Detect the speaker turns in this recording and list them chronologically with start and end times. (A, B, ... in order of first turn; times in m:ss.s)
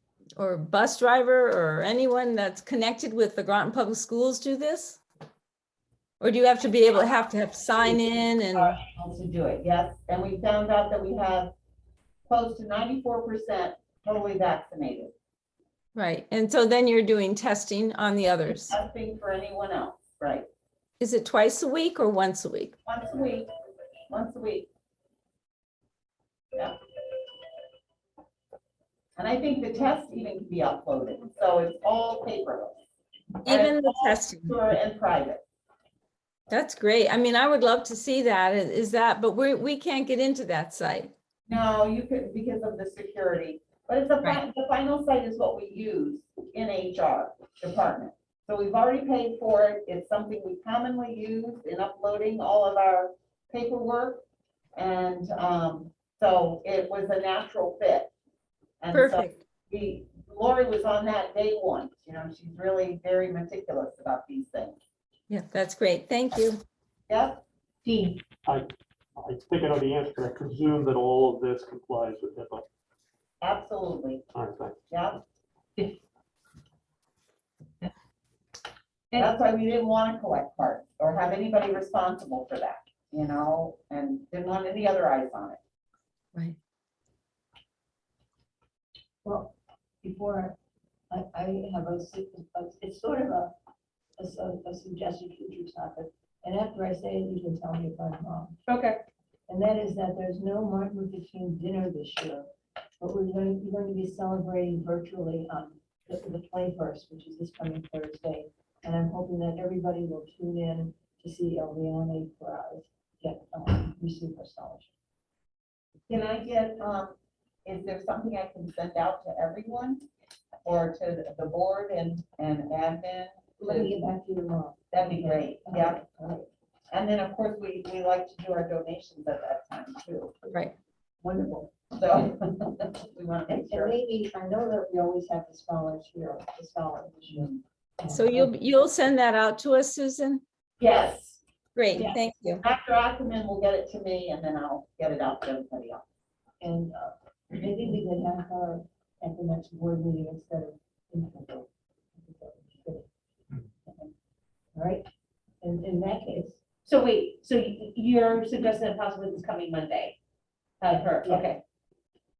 0:00.4-0:05.0 A
0:06.2-0:08.8 A
0:08.5-0:11.5 B
0:12.3-0:15.1 B
0:15.9-0:18.8 A
0:18.7-0:20.4 B
0:21.0-0:22.7 A
0:22.8-0:23.5 B
0:24.1-0:24.7 B
0:29.2-0:32.8 B
0:33.4-0:34.6 A
0:33.4-0:35.4 B
0:36.5-0:41.1 A
0:41.5-0:54.2 B
0:54.8-0:58.1 B
0:58.8-1:04.8 B
0:58.9-0:59.4 A
1:05.3-1:06.6 A
1:07.1-1:07.4 B
1:07.8-1:08.2 C
1:08.4-1:12.6 D
1:13.4-1:14.2 B
1:14.3-1:14.8 D
1:14.9-1:15.2 B
1:19.1-1:25.6 B
1:29.2-1:30.6 E
1:31.1-1:33.5 E
1:34.2-1:38.6 E
1:38.7-1:39.0 C
1:39.5-1:42.5 E
1:43.0-1:54.9 E
1:56.1-2:00.0 B
2:00.6-2:03.9 B
2:03.6-2:06.5 E
2:04.9-2:06.0 B
2:06.9-2:10.4 B
2:11.2-2:11.7 E
2:11.9-2:13.9 B
2:13.5-2:18.5 E
2:18.1-2:20.4 A
2:20.8-2:21.4 B
2:21.8-2:22.6 A
2:21.9-2:26.0 B
2:26.6-2:33.1 E
2:34.7-2:35.0 E
2:35.6-2:36.6 E
2:36.8-2:40.2 C
2:40.8-2:41.6 C